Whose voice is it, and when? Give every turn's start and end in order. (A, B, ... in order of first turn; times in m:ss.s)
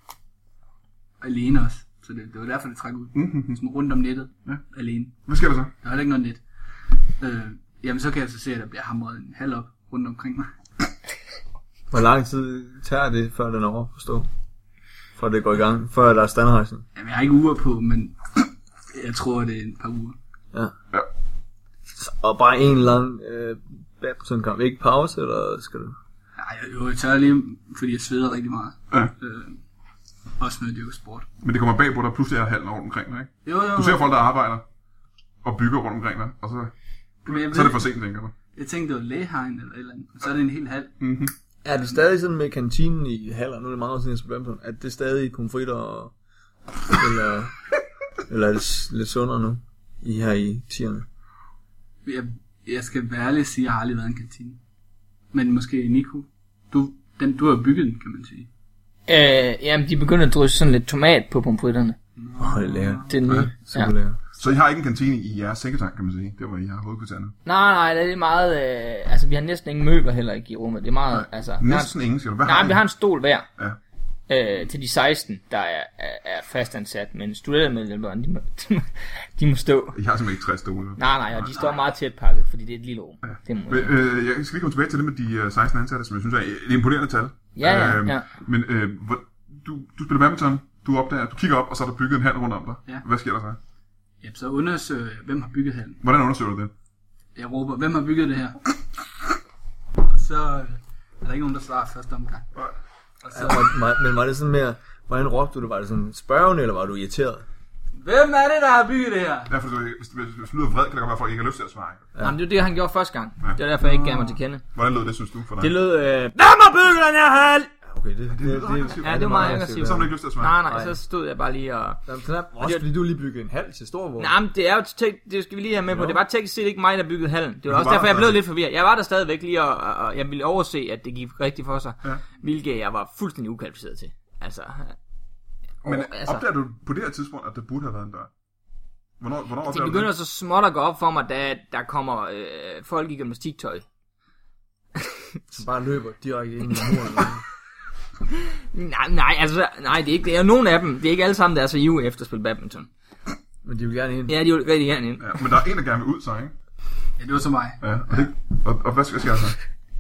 0:01.2-0:05.2 A
0:03.1-0:03.6 B
0:05.3-0:05.7 B
0:05.8-0:06.4 A
0:07.2-0:10.5 A
0:11.9-0:14.3 C
0:15.2-0:16.8 C
0:17.0-0:20.2 A
0:21.9-0:26.0 C
0:26.4-0:29.6 A
0:30.4-0:31.3 A
0:31.4-0:34.6 B
0:33.4-0:34.1 A
0:35.4-0:36.7 B
0:37.2-0:37.9 A
0:37.3-0:38.3 B
0:38.5-0:41.0 A
0:41.0-0:41.3 B
0:41.6-0:46.1 C
0:46.9-0:47.6 C
0:48.3-0:51.1 C
0:52.0-0:54.6 A
0:55.3-0:58.5 A
0:59.1-1:02.0 D
1:02.2-1:03.2 A
1:02.4-1:04.2 C
1:03.1-1:03.9 D
1:04.4-1:07.4 B
1:07.5-1:11.9 D
1:11.1-1:12.8 B
1:12.4-1:13.5 D
1:14.3-1:20.0 D
1:20.0-1:21.6 B
1:21.0-1:23.9 D
1:21.5-1:21.8 A
1:23.2-1:33.6 B
1:27.6-1:28.3 D
1:34.2-1:36.0 A
1:36.0-1:36.7 B
1:37.4-1:38.7 A
1:40.1-1:42.5 A
1:43.2-1:43.7 A
1:43.3-1:47.4 C
1:48.0-1:49.5 A
1:49.5-1:52.1 B
1:52.2-1:52.4 C
1:52.2-1:54.6 D
1:53.8-1:54.4 A
1:54.7-1:55.7 B
1:55.6-1:57.7 D
1:57.9-2:01.0 C
1:58.3-2:00.6 B
1:59.0-2:02.0 D
2:02.1-2:04.4 C
2:02.6-2:02.8 D
2:04.2-2:15.0 D
2:05.9-2:06.2 C
2:07.7-2:08.4 B
2:15.8-2:16.4 D
2:15.8-2:18.3 B
2:19.2-2:20.1 B
2:19.7-2:23.8 D
2:25.0-2:25.4 D
2:25.5-2:27.4 C
2:28.3-2:32.9 D
2:33.6-2:34.4 C
2:34.3-2:35.4 D
2:35.2-2:36.5 B
2:37.2-2:38.2 A
2:37.8-2:39.6 B